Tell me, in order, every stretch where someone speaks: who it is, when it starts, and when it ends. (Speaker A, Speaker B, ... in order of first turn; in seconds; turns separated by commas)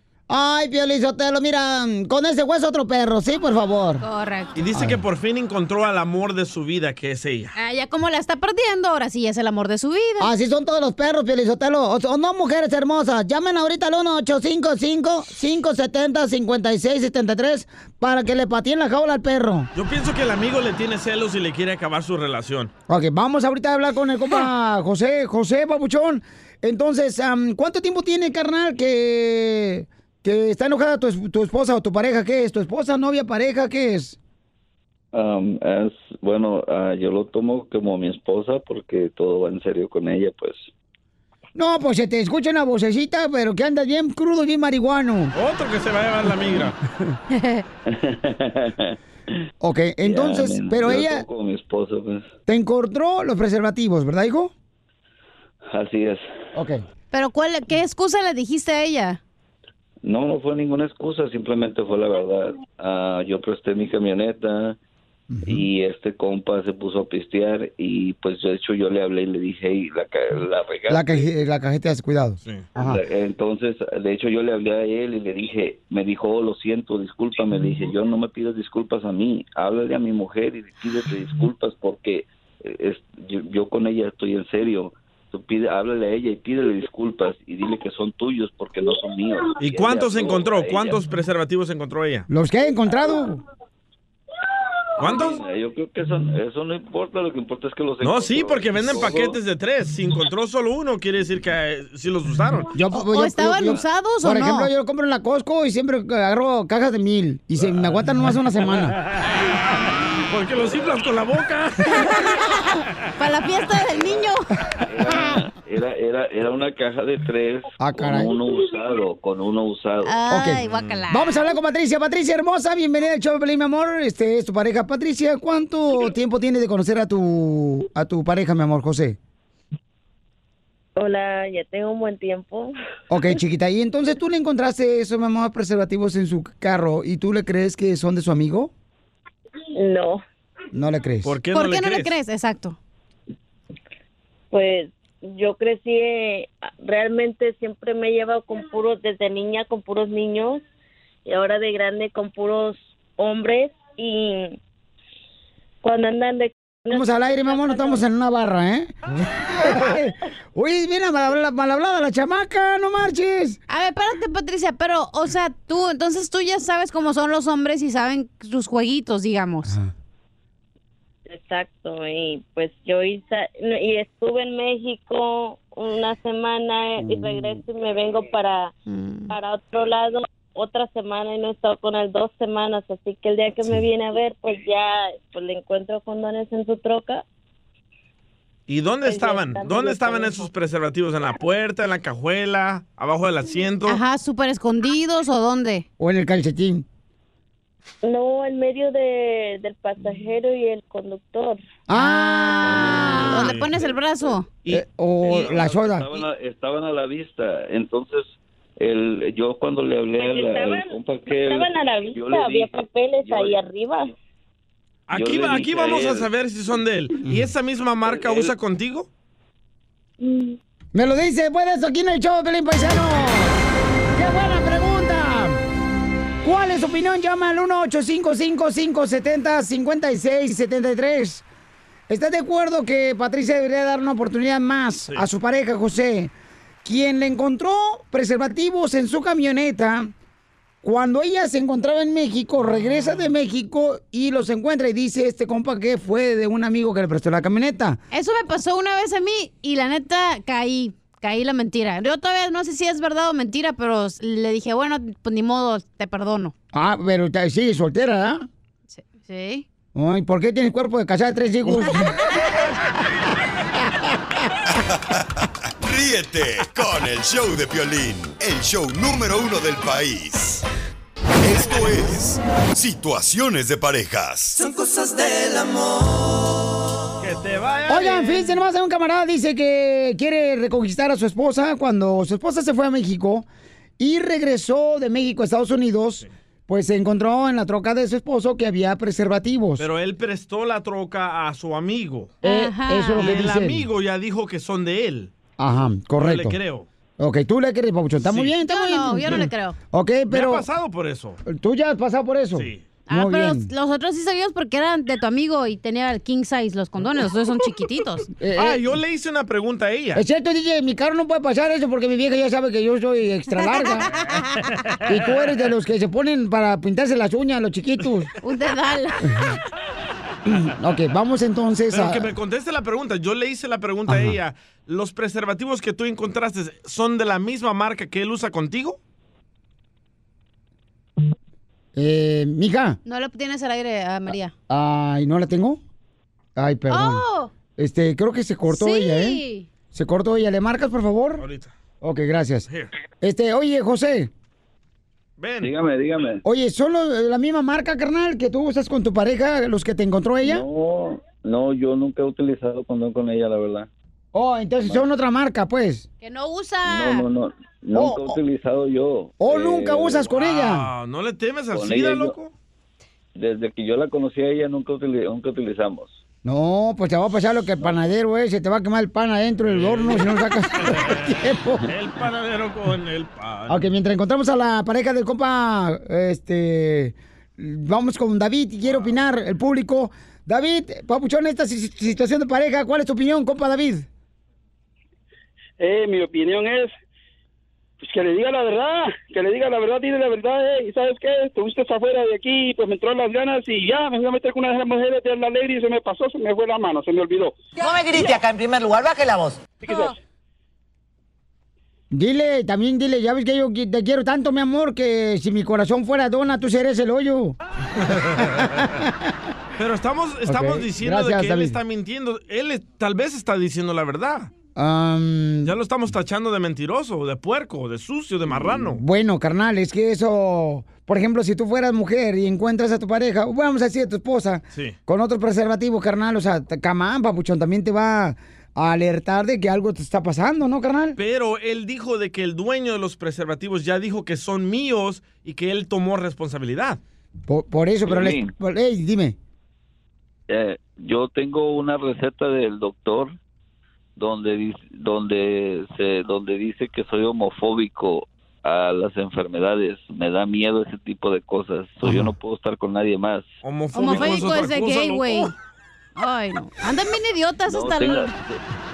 Speaker A: 0.3-4.0, Speaker B: 4.0-4.5, Speaker C: 4.5-7.5, Speaker B: 7.5-10.3, Speaker A: 10.2-19.7, Speaker C: 19.8-22.7, Speaker A: 22.9-34.2, Speaker D: 35.1-40.7, Speaker A: 41.5-45.3, Speaker C: 45.3-46.8, Speaker B: 47.3-47.6, Speaker D: 47.9-49.0, Speaker A: 49.6-51.2, Speaker D: 50.0-52.3, Speaker A: 52.5-54.5, Speaker D: 55.7-56.3, Speaker A: 56.5-56.8, Speaker B: 57.1-59.2, Speaker D: 60.0-64.8, Speaker A: 65.3-65.7, Speaker D: 65.5-71.3, Speaker A: 70.9-73.0, Speaker D: 72.8-91.0, Speaker C: 89.6-92.3, Speaker A: 92.3-93.4, Speaker C: 95.0-95.4, Speaker D: 95.0-99.4, Speaker C: 98.0-102.7, Speaker A: 102.7-109.0, Speaker B: 102.9-104.7, Speaker C: 110.3-112.2, Speaker B: 112.0-114.5, Speaker D: 114.0-114.3, Speaker D: 114.9-120.2, Speaker A: 117.8-118.3, Speaker B: 120.0-121.5, Speaker A: 120.3-129.2, Speaker C: 120.7-121.0, Speaker E: 131.0-132.8, Speaker A: 133.1-138.7, Speaker E: 139.7-140.2, Speaker A: 140.7-141.3, Speaker C: 141.2-142.2, Speaker B: 141.5-142.8, Speaker E: 144.5-150.6, Speaker E: 151.3-154.6, Speaker E: 155.8-158.0, Speaker A: 156.9-163.6, Speaker B: 163.7-169.7, Speaker A: 169.7-169.9, Speaker E: 171.3-178.7, Speaker A: 177.0-177.6, Speaker B: 178.9-179.3, Speaker E: 179.3-187.2, Speaker C: 188.7-194.0, Speaker E: 189.0-190.5, Speaker B: 193.9-195.9, Speaker A: 196.0-196.9, Speaker E: 198.0-201.6, Speaker A: 201.9-203.3, Speaker B: 201.9-204.5, Speaker D: 202.6-204.3, Speaker C: 203.3-203.8, Speaker A: 204.7-206.2, Speaker D: 205.2-213.6, Speaker E: 211.5-214.1, Speaker C: 215.1-219.1, Speaker D: 215.1-216.3, Speaker D: 218.1-218.5, Speaker E: 220.2-220.5, Speaker A: 220.9-223.6, Speaker A: 224.1-225.6, Speaker A: 226.4-231.4, Speaker A: 232.1-236.3, Speaker A: 236.8-240.1, Speaker A: 240.8-248.0, Speaker B: 248.1-256.5, Speaker A: 256.7-258.4, Speaker B: 258.9-259.6, Speaker A: 259.9-262.1, Speaker F: 264.9-265.2, Speaker F: 265.8-270.6, Speaker F: 271.4-274.6, Speaker G: 274.7-275.8, Speaker C: 277.2-278.6, Speaker A: 277.9-283.5, Speaker A: 284.0-289.9, Speaker C: 289.8-292.4, Speaker B: 292.4-293.5, Speaker A: 292.4-293.9, Speaker C: 293.2-295.3, Speaker A: 295.6-296.6, Speaker C: 296.2-296.9, Speaker A: 297.2-300.6, Speaker C: 298.2-298.6, Speaker B: 298.6-299.8, Speaker C: 300.3-301.4, Speaker A: 301.5-303.7, Speaker C: 302.6-302.9, Speaker B: 303.1-308.3, Speaker A: 308.4-308.8, Speaker C: 308.6-310.2, Speaker A: 310.2-314.1, Speaker B: 313.7-314.4, Speaker A: 315.1-318.3, Speaker B: 318.4-319.2, Speaker A: 319.3-319.6, Speaker A: 320.5-322.3, Speaker C: 321.9-329.0, Speaker A: 324.1-324.4, Speaker A: 332.0-333.0, Speaker B: 333.1-334.5, Speaker A: 334.7-335.8, Speaker A: 336.6-337.2, Speaker B: 336.9-337.5, Speaker A: 337.8-339.4, Speaker B: 338.7-339.7, Speaker A: 339.9-341.4, Speaker C: 341.4-341.7, Speaker A: 342.0-342.7, Speaker A: 343.2-344.3, Speaker C: 345.4-345.7, Speaker D: 345.6-346.4, Speaker A: 346.4-350.6, Speaker D: 350.4-353.9, Speaker A: 354.3-356.1, Speaker B: 356.2-357.3, Speaker D: 356.9-360.3, Speaker A: 357.9-358.4, Speaker A: 359.4-360.9, Speaker C: 360.3-362.5, Speaker D: 361.7-362.4, Speaker D: 363.4-366.2, Speaker A: 366.4-371.9, Speaker C: 369.7-370.3, Speaker C: 370.9-371.2, Speaker C: 371.9-373.9, Speaker A: 373.7-384.1, Speaker C: 378.9-379.2, Speaker H: 385.8-386.9, Speaker H: 388.0-397.5, Speaker G: 397.8-399.7, Speaker A: 402.1-407.6, Speaker A: 408.8-409.1, Speaker C: 409.8-414.5, Speaker A: 410.5-411.8, Speaker A: 414.8-415.7, Speaker C: 415.6-419.0, Speaker A: 418.5-431.2, Speaker C: 431.2-437.0, Speaker A: 437.5-439.4, Speaker D: 438.1-438.5, Speaker D: 440.5-443.4, Speaker D: 444.2-453.5, Speaker C: 453.6-455.5, Speaker B: 453.9-455.5, Speaker D: 454.1-454.3, Speaker B: 456.2-458.3, Speaker D: 457.7-458.6